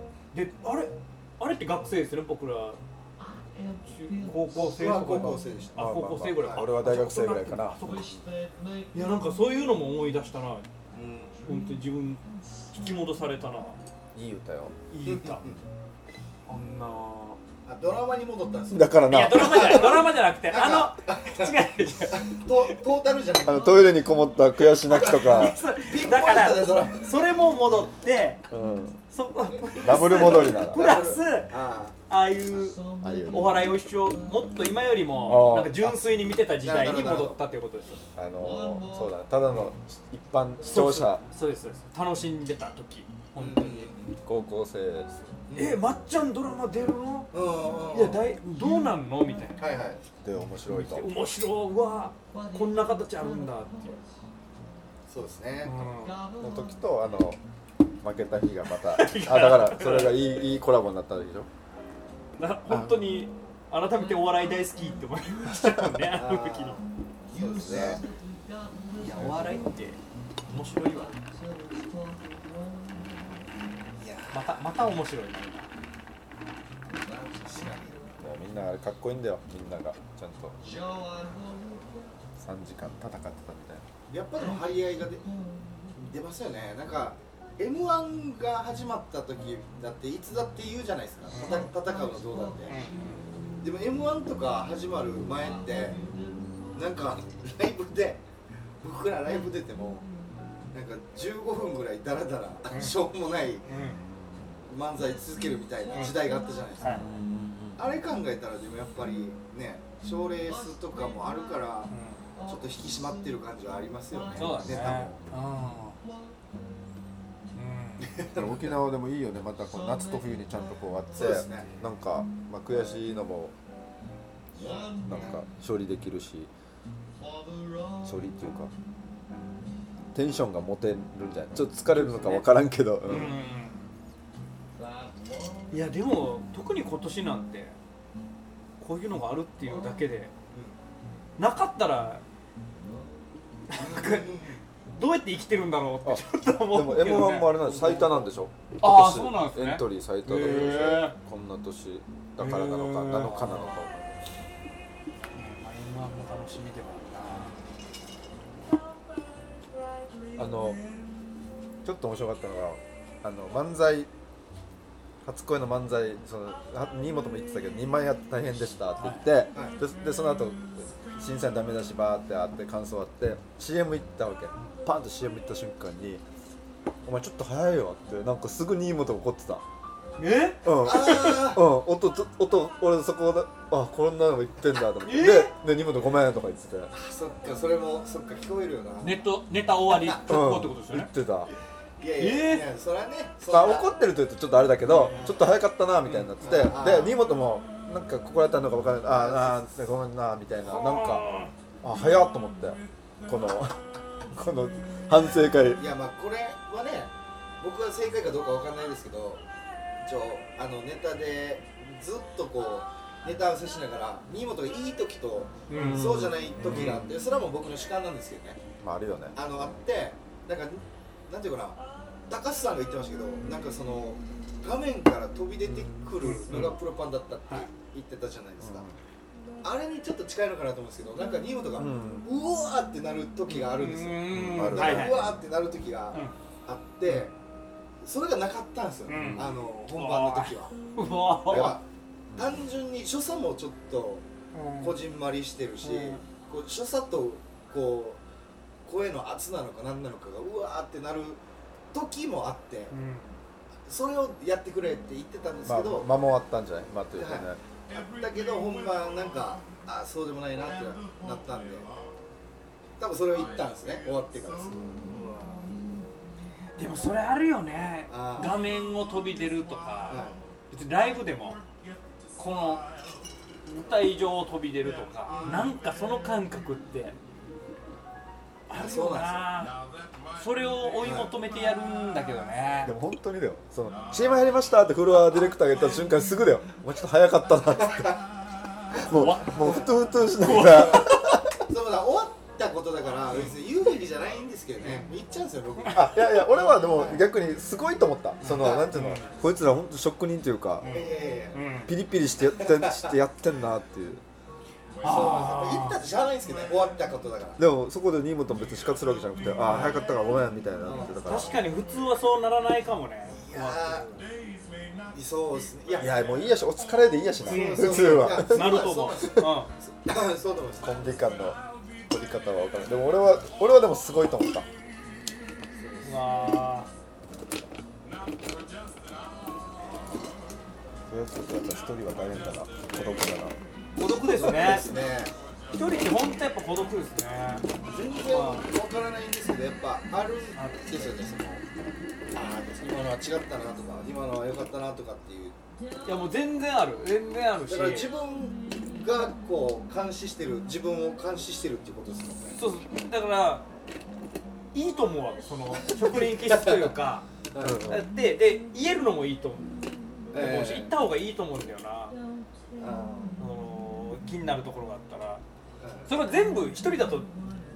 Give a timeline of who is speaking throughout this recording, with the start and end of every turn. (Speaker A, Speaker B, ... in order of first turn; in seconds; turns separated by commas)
Speaker A: 0.3-2.8, Speaker A: 3.9-8.2, Speaker B: 4.7-6.7, Speaker C: 5.8-7.9, Speaker A: 8.9-10.7, Speaker B: 10.9-11.4, Speaker A: 11.4-13.8, Speaker C: 14.1-14.7, Speaker A: 14.9-15.5, Speaker B: 15.0-15.6, Speaker A: 16.5-17.4, Speaker B: 17.6-21.6, Speaker C: 18.7-20.0, Speaker A: 19.1-22.7, Speaker B: 22.1-23.8, Speaker C: 23.4-25.6, Speaker B: 24.9-27.1, Speaker A: 24.9-28.4, Speaker C: 28.5-29.0, Speaker A: 29.1-31.5, Speaker B: 29.5-31.9, Speaker C: 29.8-30.9, Speaker A: 32.1-38.0, Speaker C: 33.0-33.6, Speaker C: 35.2-36.0, Speaker B: 36.6-37.4, Speaker C: 38.1-41.2, Speaker A: 40.6-43.9, Speaker B: 43.4-44.2, Speaker C: 44.2-45.3, Speaker B: 45.5-45.8, Speaker A: 45.5-47.3, Speaker B: 47.3-48.2, Speaker A: 47.9-49.7, Speaker B: 49.6-50.0, Speaker C: 50.2-51.1, Speaker A: 50.7-54.0, Speaker B: 55.1-55.8, Speaker A: 55.6-56.2, Speaker C: 56.4-57.4, Speaker C: 58.0-61.5, Speaker A: 58.9-60.2, Speaker A: 62.4-66.8, Speaker B: 66.1-68.0, Speaker C: 67.6-68.0, Speaker A: 69.0-71.2, Speaker B: 69.1-69.5, Speaker B: 74.0-74.4, Speaker A: 74.3-75.7, Speaker B: 77.1-78.1, Speaker C: 78.2-80.6, Speaker C: 82.4-83.8, Speaker B: 84.1-85.2, Speaker B: 85.9-92.8, Speaker A: 91.3-91.7, Speaker A: 92.7-93.3, Speaker B: 93.6-96.0, Speaker B: 96.7-98.2, Speaker B: 98.8-100.1, Speaker B: 100.7-103.7, Speaker A: 103.7-104.0, Speaker C: 104.1-104.5, Speaker B: 104.7-107.1, Speaker C: 106.9-107.8, Speaker B: 107.8-111.9, Speaker A: 111.9-112.2, Speaker B: 112.4-115.1, Speaker A: 114.3-116.0, Speaker C: 114.4-115.3, Speaker A: 117.5-118.1, Speaker B: 118.0-118.8, Speaker C: 118.3-123.5, Speaker B: 121.2-121.8, Speaker B: 124.6-125.3, Speaker C: 125.0-126.5, Speaker C: 128.0-128.7, Speaker C: 130.1-133.3, Speaker A: 131.9-132.4, Speaker A: 133.0-133.9, Speaker A: 135.7-137.8, Speaker A: 138.8-140.3, Speaker A: 141.4-142.2, Speaker A: 143.7-148.2, Speaker B: 143.8-144.6, Speaker C: 146.0-154.2, Speaker A: 148.8-151.2, Speaker A: 152.4-153.7, Speaker B: 153.2-153.8, Speaker A: 155.3-157.6, Speaker C: 160.3-160.8, Speaker C: 161.8-164.1, Speaker C: 165.2-176.2, Speaker A: 169.0-169.3, Speaker C: 177.0-179.6, Speaker A: 180.2-181.4, Speaker C: 180.6-186.9, Speaker B: 180.7-181.6, Speaker A: 185.0-185.5, Speaker B: 186.9-189.2, Speaker A: 189.0-191.1, Speaker B: 189.9-190.2, Speaker C: 190.2-191.5, Speaker B: 192.0-193.9, Speaker A: 192.2-192.7, Speaker C: 193.5-201.2, Speaker B: 195.0-195.5, Speaker B: 196.1-197.2, Speaker B: 199.1-199.6, Speaker A: 200.7-201.5, Speaker C: 201.8-205.8, Speaker B: 205.8-209.4, Speaker B: 210.0-218.6, Speaker A: 215.7-216.1, Speaker C: 215.7-217.1, Speaker A: 216.6-217.0, Speaker C: 218.8-219.7, Speaker B: 219.3-228.9, Speaker A: 225.7-226.8, Speaker C: 228.6-228.9, Speaker B: 229.6-237.3, Speaker C: 231.8-232.3, Speaker A: 233.5-235.3, Speaker C: 234.3-235.3, Speaker B: 238.0-240.8, Speaker A: 239.1-241.8, Speaker C: 239.1-239.5, Speaker B: 241.5-241.8, Speaker C: 242.3-242.6, Speaker B: 242.3-244.2, Speaker A: 244.5-245.0, Speaker B: 244.8-248.2, Speaker A: 245.8-246.2, Speaker B: 248.8-251.4, Speaker B: 251.9-252.9, Speaker A: 252.9-253.4, Speaker B: 253.9-256.1, Speaker C: 255.6-257.6, Speaker B: 257.1-261.9, Speaker B: 263.0-265.2, Speaker A: 266.8-271.6, Speaker B: 268.1-268.5, Speaker B: 270.1-270.4, Speaker A: 272.4-272.8, Speaker A: 273.6-277.2, Speaker B: 275.3-275.8, Speaker A: 278.7-279.8, Speaker B: 278.7-279.5, Speaker A: 280.3-282.9, Speaker B: 281.0-281.3, Speaker C: 282.8-288.2, Speaker B: 287.9-288.2, Speaker C: 288.9-291.4, Speaker A: 289.0-291.3, Speaker B: 290.6-291.0, Speaker B: 291.6-297.2, Speaker A: 295.8-296.1, Speaker C: 295.9-300.9, Speaker A: 298.4-299.3, Speaker B: 298.4-299.0, Speaker A: 300.8-301.9, Speaker B: 300.9-301.6, Speaker C: 301.9-304.2, Speaker B: 302.4-303.1, Speaker A: 305.0-306.0, Speaker B: 305.0-307.6, Speaker C: 307.6-311.6, Speaker A: 309.7-309.9, Speaker B: 310.8-311.4, Speaker A: 311.2-314.3, Speaker B: 313.3-314.1, Speaker B: 315.1-316.5, Speaker C: 316.0-318.7, Speaker B: 317.4-321.1, Speaker A: 317.5-319.7, Speaker C: 320.8-324.7, Speaker B: 325.8-326.1, Speaker A: 326.0-326.9, Speaker C: 331.1-333.6, Speaker A: 334.0-334.9, Speaker B: 334.1-335.3, Speaker A: 335.7-337.7, Speaker B: 337.8-341.6, Speaker A: 338.3-338.7, Speaker A: 340.6-341.1, Speaker B: 342.3-345.5, Speaker A: 346.0-348.1, Speaker B: 347.7-352.6, Speaker A: 352.6-353.6, Speaker A: 354.7-357.3, Speaker B: 355.8-356.9, Speaker B: 357.5-357.8, Speaker C: 357.6-358.1, Speaker A: 357.8-359.7, Speaker B: 360.3-360.9, Speaker A: 360.3-362.2, Speaker B: 362.8-363.4, Speaker A: 363.4-365.4, Speaker B: 365.8-366.1, Speaker A: 366.1-367.3